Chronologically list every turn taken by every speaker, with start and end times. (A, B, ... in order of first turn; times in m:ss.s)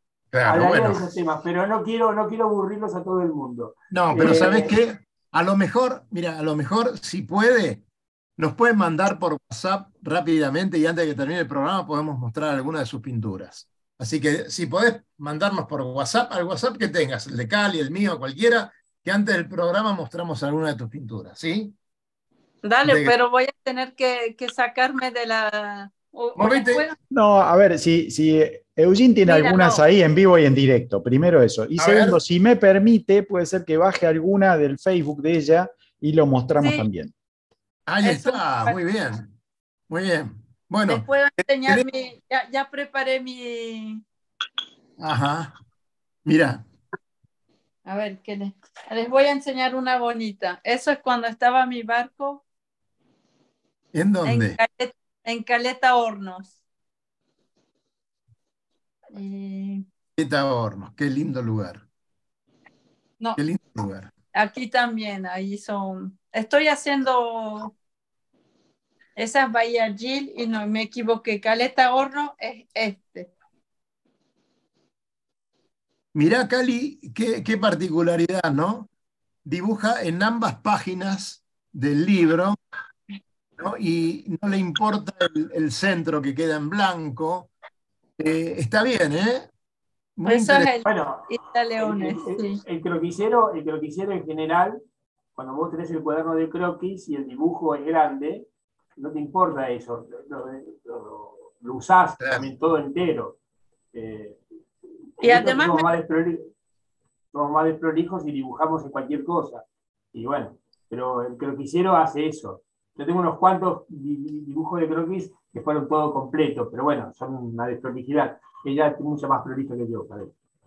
0:00.3-0:01.0 A
0:00.5-0:04.7 B
0:03.9-0:07.8 A
0:08.4-0:21.8 A
0:22.6-0:27.0 C
0:22.8-0:23.2 A
0:26.4-0:26.8 A
0:27.1-0:37.1 D
0:29.3-0:29.8 C
0:31.8-0:32.2 A
0:36.6-0:36.9 C
0:37.9-0:39.3 A
0:38.0-0:38.8 C
0:39.9-0:41.1 A
0:40.9-0:44.0 C
0:45.0-0:45.5 A
0:46.2-0:46.6 A
0:47.9-0:52.4 C
0:53.9-0:54.6 A
0:54.2-0:56.5 C
0:59.1-0:59.8 C
1:00.2-1:01.8 A
1:03.4-1:04.1 A
1:04.3-1:07.7 C
1:09.2-1:13.3 C
1:16.1-1:18.9 A
1:19.4-1:22.6 A
1:23.6-1:27.5 A
1:28.2-1:29.5 A
1:30.2-1:30.7 A
1:30.2-1:32.6 C
1:30.8-1:34.8 B
1:35.4-1:43.4 B
1:42.2-1:42.5 A
1:43.9-1:44.4 B
1:45.2-1:46.5 B
1:45.2-1:45.9 C
1:47.3-2:00.3 B